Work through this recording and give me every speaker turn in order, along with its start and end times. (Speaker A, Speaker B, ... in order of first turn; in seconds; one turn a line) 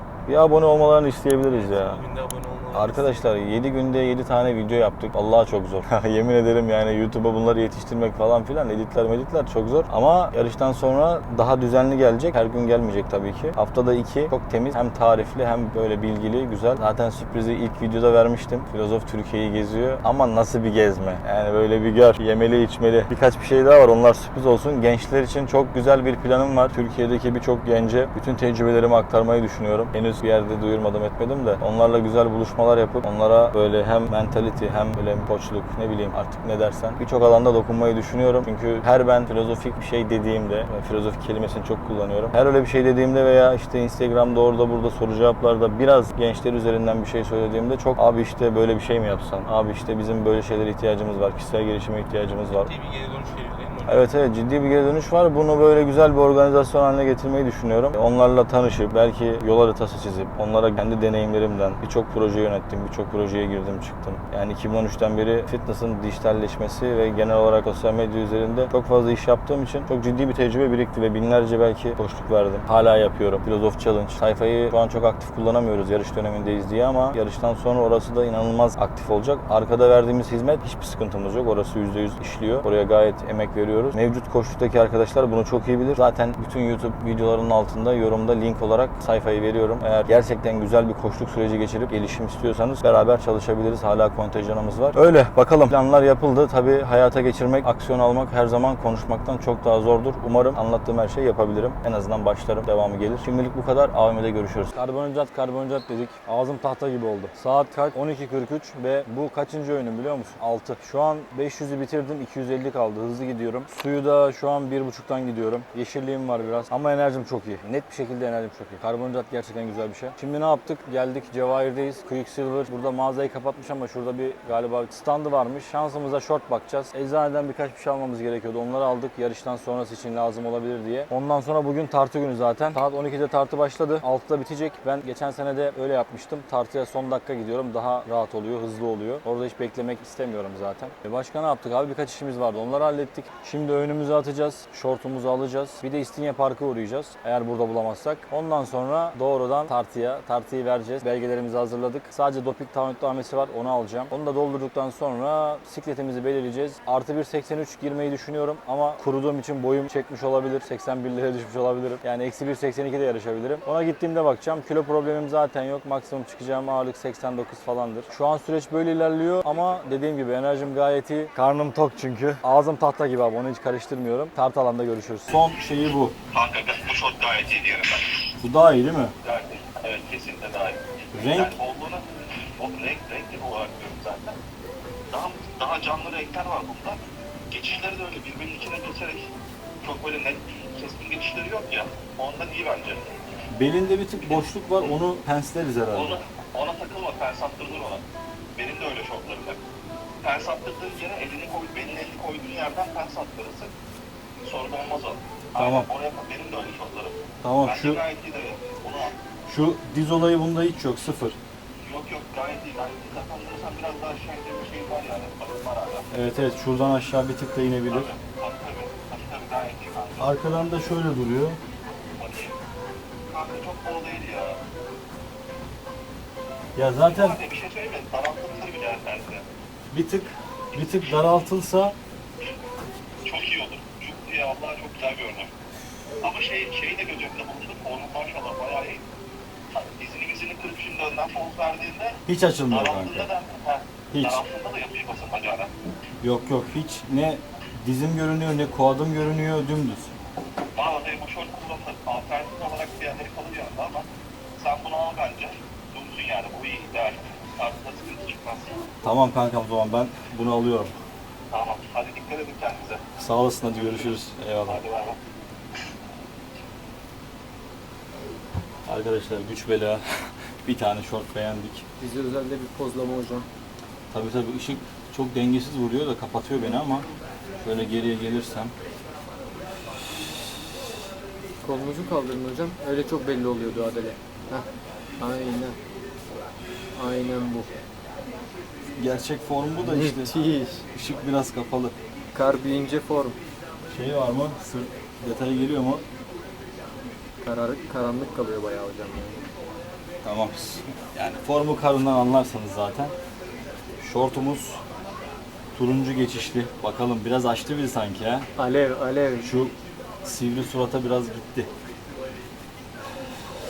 Speaker A: 0.3-2.0
Speaker B: 1.5-3.3
Speaker A: 2.7-52.7
Speaker B: 52.5-54.1
Speaker A: 53.9-176.2
Speaker C: 176.3-178.2
Speaker A: 178.4-179.2
Speaker C: 179.2-182.1
Speaker A: 181.1-181.6
Speaker C: 182.6-184.4
Speaker C: 185.1-189.3
Speaker C: 189.8-193.1
Speaker A: 193.5-196.2
Speaker C: 195.9-198.0
Speaker C: 198.6-199.6
Speaker C: 200.2-203.7
Speaker C: 204.4-209.2
Speaker A: 205.6-205.9
Speaker A: 207.4-208.0
Speaker A: 209.5-211.4
Speaker C: 211.8-216.1
Speaker A: 216.1-218.1
Speaker C: 217.9-220.4
Speaker A: 220.2-221.6
Speaker C: 222.2-222.6
Speaker C: 223.3-224.6
Speaker A: 226.8-227.4
Speaker C: 227.1-229.4
Speaker A: 229.9-231.9
Speaker C: 230.7-231.0
Speaker C: 233.2-235.5
Speaker C: 236.2-239.1
Speaker C: 239.7-242.2
Speaker A: 242.3-243.3
Speaker C: 242.7-245.7
Speaker A: 244.1-244.4
Speaker A: 246.2-250.1
Speaker C: 250.8-254.1
Speaker C: 254.6-258.9
Speaker A: 259.0-260.9
Speaker C: 261.5-263.0
Speaker A: 263.2-264.8
Speaker C: 264.7-265.2
Speaker A: 268.9-271.8
Speaker D: 272.0-273.5
Speaker A: 274.1-277.1
Speaker A: 277.6-278.7
Speaker D: 281.6-284.7
Speaker D: 285.2-285.8
Speaker D: 287.0-287.7
Speaker A: 289.0-291.9
Speaker D: 289.8-290.8
Speaker D: 292.3-293.4
Speaker A: 293.9-296.0
Speaker D: 297.4-299.4
Speaker A: 300.2-303.1
Speaker A: 304.0-304.8
Speaker A: 305.8-308.5
Speaker D: 308.6-309.5
Speaker A: 309.4-311.7